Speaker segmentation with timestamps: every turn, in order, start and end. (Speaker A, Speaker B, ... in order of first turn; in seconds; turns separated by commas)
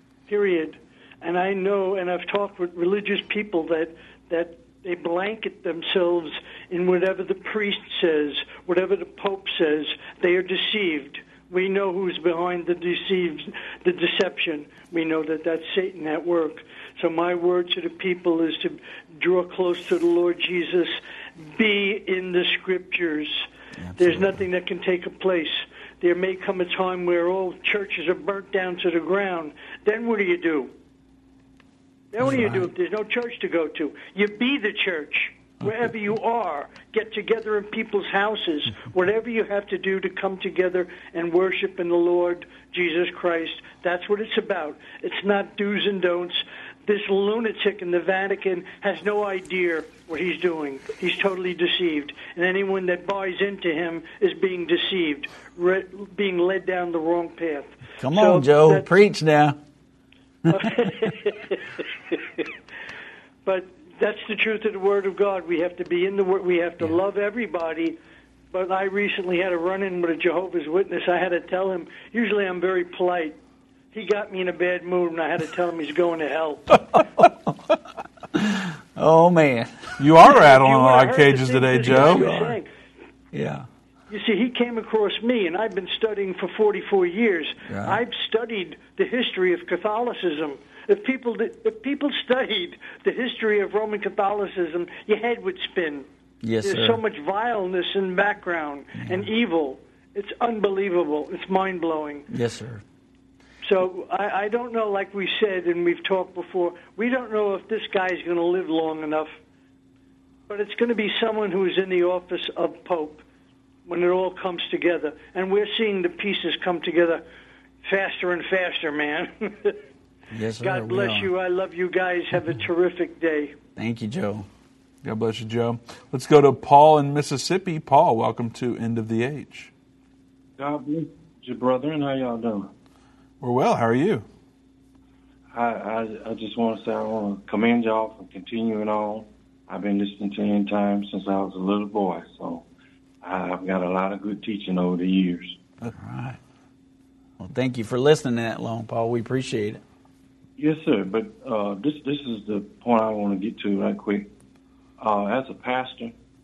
Speaker A: 0.3-23.5, Speaker B: 23.8-24.4, Speaker A: 24.0-30.7, Speaker A: 32.1-58.9, Speaker B: 32.2-32.7, Speaker B: 58.0-59.6, Speaker A: 60.5-62.5, Speaker A: 63.4-68.0, Speaker A: 68.5-73.4, Speaker A: 73.9-76.8, Speaker B: 78.3-80.0, Speaker C: 80.0-82.3, Speaker A: 80.3-82.7, Speaker B: 81.8-82.6, Speaker B: 83.3-83.7, Speaker A: 84.1-96.1, Speaker B: 87.7-88.0, Speaker B: 96.4-97.0, Speaker A: 96.6-102.2, Speaker B: 98.9-99.3, Speaker B: 102.3-102.8, Speaker A: 103.7-109.3, Speaker A: 110.5-113.2, Speaker A: 113.8-117.2, Speaker A: 117.8-119.8, Speaker B: 120.3-121.3, Speaker A: 120.6-123.5, Speaker B: 123.8-124.5, Speaker C: 125.0-129.7, Speaker D: 130.6-132.7, Speaker C: 133.4-134.3, Speaker D: 135.5-142.7, Speaker D: 143.2-145.6, Speaker B: 145.9-146.4, Speaker B: 147.4-149.8, Speaker D: 150.6-154.3, Speaker D: 155.0-156.1